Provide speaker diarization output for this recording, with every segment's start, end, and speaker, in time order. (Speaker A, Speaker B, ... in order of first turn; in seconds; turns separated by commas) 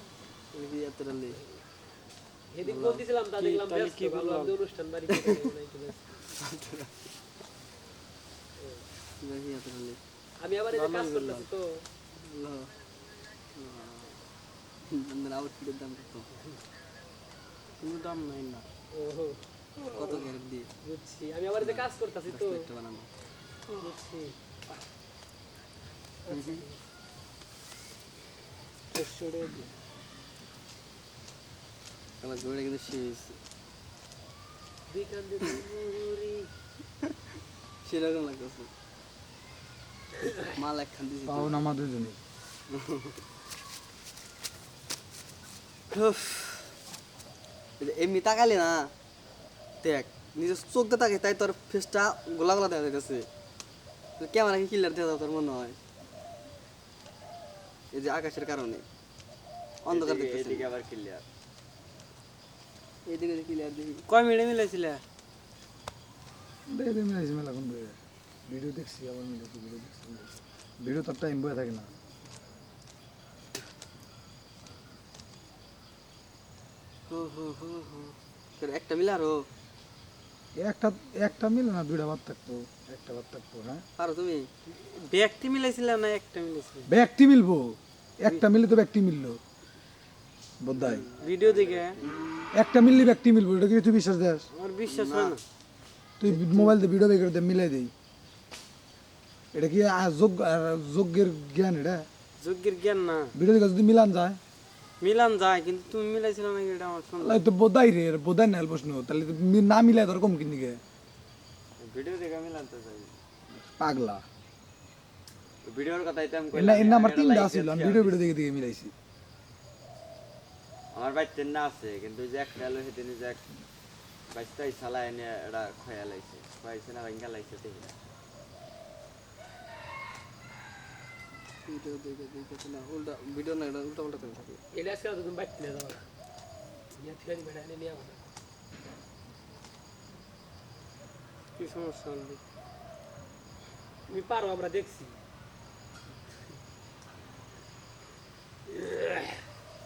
Speaker A: 0.5-1.4, Speaker B: 2.5-6.2, Speaker C: 2.7-4.5, Speaker A: 6.4-6.9, Speaker B: 8.6-8.8, Speaker A: 9.2-10.0, Speaker B: 10.4-11.9, Speaker C: 10.7-11.5, Speaker A: 12.1-12.7, Speaker A: 13.6-14.2, Speaker A: 14.9-16.3, Speaker C: 17.8-18.7, Speaker B: 18.9-19.5, Speaker C: 19.8-20.1, Speaker A: 19.9-20.7, Speaker B: 20.8-22.7, Speaker A: 21.6-23.1, Speaker B: 23.8-24.4, Speaker B: 26.3-26.8, Speaker A: 26.3-26.6, Speaker C: 28.9-29.7, Speaker A: 32.2-33.4, Speaker B: 34.9-36.5, Speaker A: 37.8-38.7, Speaker A: 40.5-41.6, Speaker D: 41.3-42.2, Speaker A: 45.9-46.7, Speaker A: 47.8-48.9, Speaker A: 49.8-53.3, Speaker A: 54.2-55.8, Speaker A: 57.9-58.9, Speaker A: 59.8-60.7, Speaker E: 59.9-61.2, Speaker A: 63.1-64.0, Speaker C: 64.1-65.0, Speaker D: 66.7-68.0, Speaker D: 68.5-71.9, Speaker A: 77.1-79.4, Speaker D: 80.6-83.8, Speaker A: 84.0-84.5, Speaker C: 84.7-86.9, Speaker D: 86.9-89.4, Speaker D: 90.6-91.1, Speaker A: 90.7-91.2, Speaker C: 91.2-92.0, Speaker E: 91.2-92.1, Speaker D: 92.5-94.5, Speaker C: 94.5-95.4, Speaker E: 94.9-95.4, Speaker D: 96.2-97.9, Speaker D: 99.5-102.1, Speaker C: 102.4-103.3, Speaker D: 103.3-104.4, Speaker C: 105.0-107.4, Speaker D: 107.2-110.8, Speaker E: 111.8-113.2, Speaker D: 113.6-114.2, Speaker E: 115.6-118.3, Speaker D: 116.5-118.9, Speaker E: 120.9-123.5, Speaker E: 124.3-128.0, Speaker A: 131.7-134.6, Speaker B: 134.7-136.0, Speaker B: 137.0-138.3, Speaker C: 141.6-142.4, Speaker B: 144.1-145.2, Speaker B: 148.7-149.4